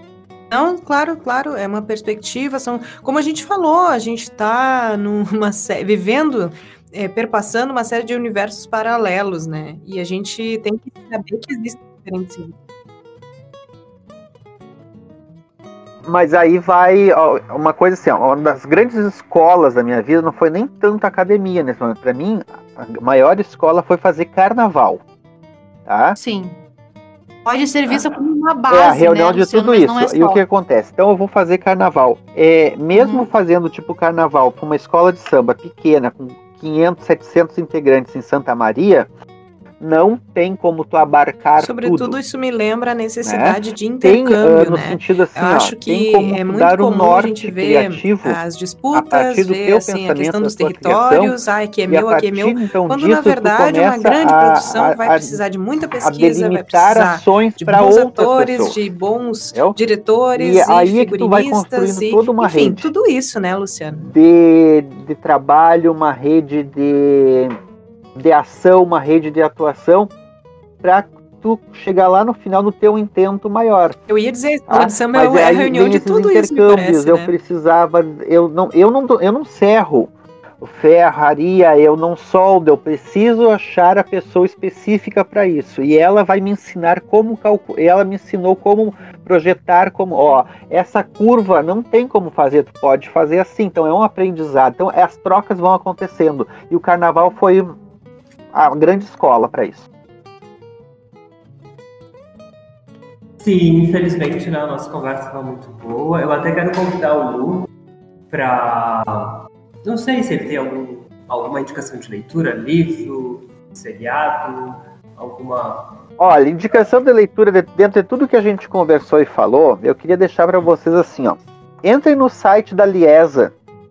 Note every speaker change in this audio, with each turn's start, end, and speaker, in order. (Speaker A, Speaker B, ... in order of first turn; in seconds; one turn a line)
Speaker A: 0.5-12.6
Speaker B: 16.0-25.0
Speaker B: 25.9-26.2
Speaker C: 26.1-26.6
Speaker C: 27.4-30.4
Speaker B: 27.9-28.2
Speaker B: 28.7-39.1
Speaker C: 33.0-33.3
Speaker B: 39.8-42.2
Speaker A: 41.6-64.1
Speaker B: 43.2-48.4
Speaker B: 48.9-55.4
Speaker B: 56.0-58.8
Speaker B: 60.4-62.9
Speaker B: 64.0-67.5
Speaker B: 68.2-70.1
Speaker B: 70.8-74.0
Speaker A: 74.1-77.4
Speaker B: 74.7-97.8
Speaker B: 98.5-99.9
Speaker D: 103.4-107.7
Speaker D: 108.3-116.0
Speaker B: 116.2-123.5